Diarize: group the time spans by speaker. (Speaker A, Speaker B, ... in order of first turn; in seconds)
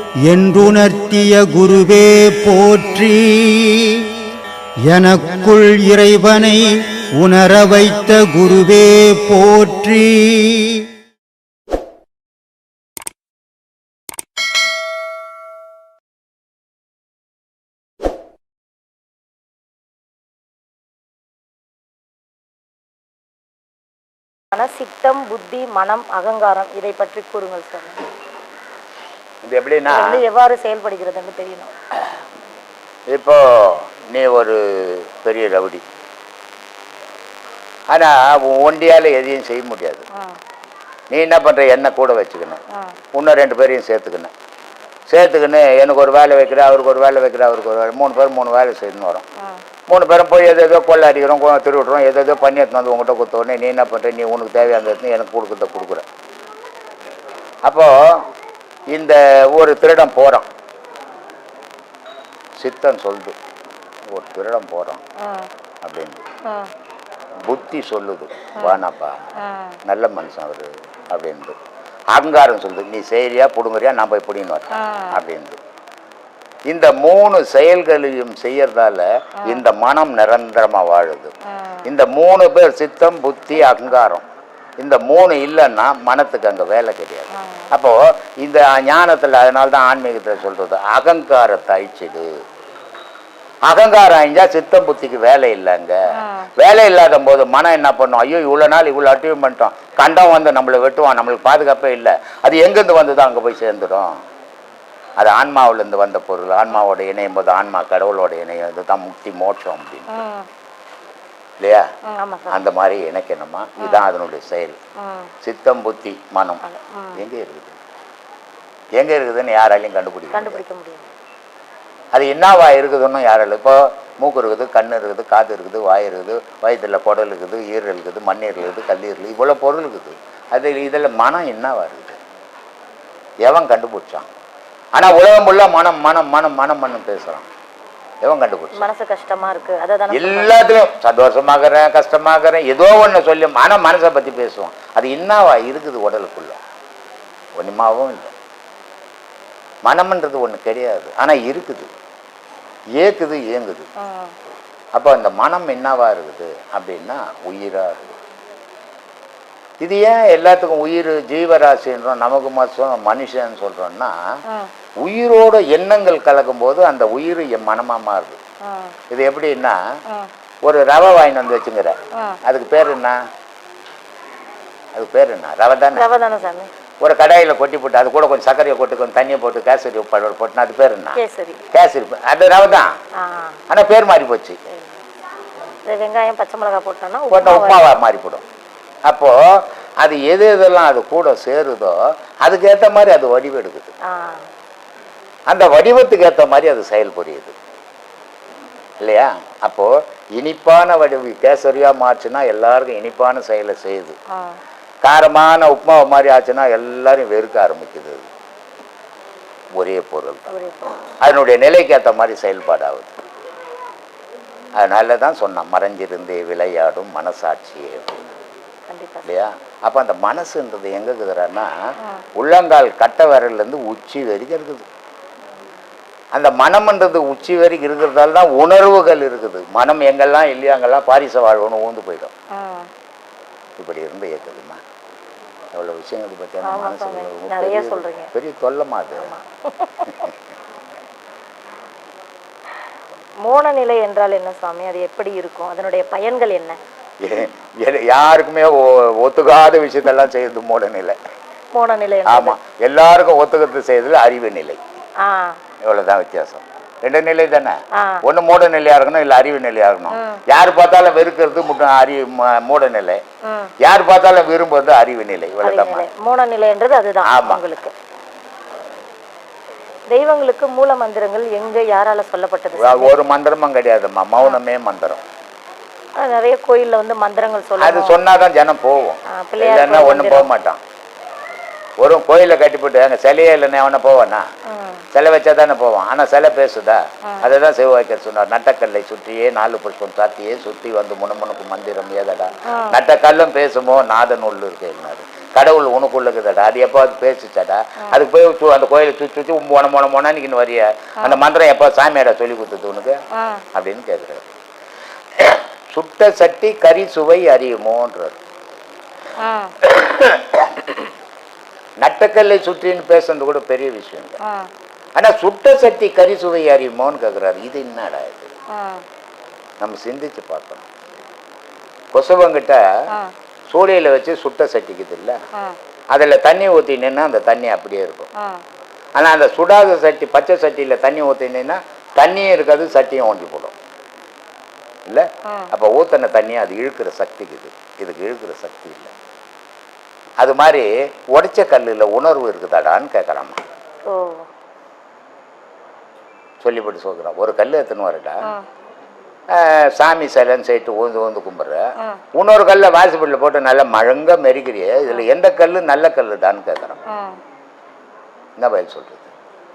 Speaker A: 0.3-4.1, 4.9-10.9
Speaker B: 24.5-28.1, 29.9-31.7, 65.2-65.5, 69.4-69.8, 74.7-75.2, 81.6-81.9, 87.3-87.7, 96.2-96.5, 110.1-110.5, 112.1-112.6, 113.8-114.1, 115.0-115.3, 116.6-117.2, 120.3-121.1, 138.8-140.5, 154.0-154.3, 168.7-168.9, 175.9-176.7, 181.2-181.6, 183.2-183.6, 185.9-187.9, 194.1-194.5, 204.3-204.6, 210.5-211.0, 218.9-219.3, 232.6-232.9, 236.7-238.3, 239.2-239.9, 243.5-246.8, 251.7-252.6, 255.2-255.6, 258.0-258.2, 260.1-260.4, 263.5-263.7, 265.6-267.9, 270.1-273.1, 276.2-278.2, 279.4-280.5, 284.7-285.0, 292.7-293.0, 303.4-303.6, 309.4-309.7, 314.4-314.7, 318.7-319.0, 328.4-328.6, 344.1-344.5, 357.1-357.4
Speaker C: 29.4-30.2, 33.1-35.8, 37.9-40.0, 41.1-42.6, 43.1-44.3, 45.1-49.3, 49.9-56.1, 57.6-58.2, 58.9-60.5, 62.6-63.4, 64.1-65.0, 65.8-66.2, 67.5-69.2, 69.9-71.6, 72.1-75.6, 76.7-81.3, 81.8-84.2, 84.8-92.3, 93.7-96.0, 96.6-104.1, 105.2-110.1, 111.6-111.9, 112.5-114.8, 115.4-116.6, 117.2-117.8, 119.0-120.6, 122.1-132.2, 133.5-134.3, 135.0-137.5, 138.2-138.9, 140.1-146.6, 147.6-148.3, 149.9-151.9, 153.0-153.9, 154.9-158.2, 159.8-164.1, 165.0-168.4, 169.1-169.8, 170.7-173.2, 174.9-176.1, 177.0-181.2, 181.7-182.9, 183.7-184.6, 187.3-188.4, 189.1-193.9, 195.5-197.6, 199.0-204.2, 205.0-208.3, 209.8-210.5, 211.2-213.1, 214.8-218.2, 219.2-221.7, 222.4-224.9, 226.3-232.3, 233.8-234.8, 235.7-239.3, 247.2-251.2, 252.3-254.8, 255.8-263.2, 263.8-266.1, 267.2-267.6, 272.8-275.2, 277.8-280.8, 282.0-284.4, 285.1-303.2, 303.7-304.4, 305.4-308.4, 309.9-310.7, 312.0-314.4, 315.2-318.5, 319.8-320.9, 322.1-322.8, 323.7-325.4, 326.1-328.3, 329.2-333.7, 335.1-339.1, 340.4-343.6, 346.6-348.4, 349.5-351.8, 352.4-357.0, 358.6-359.3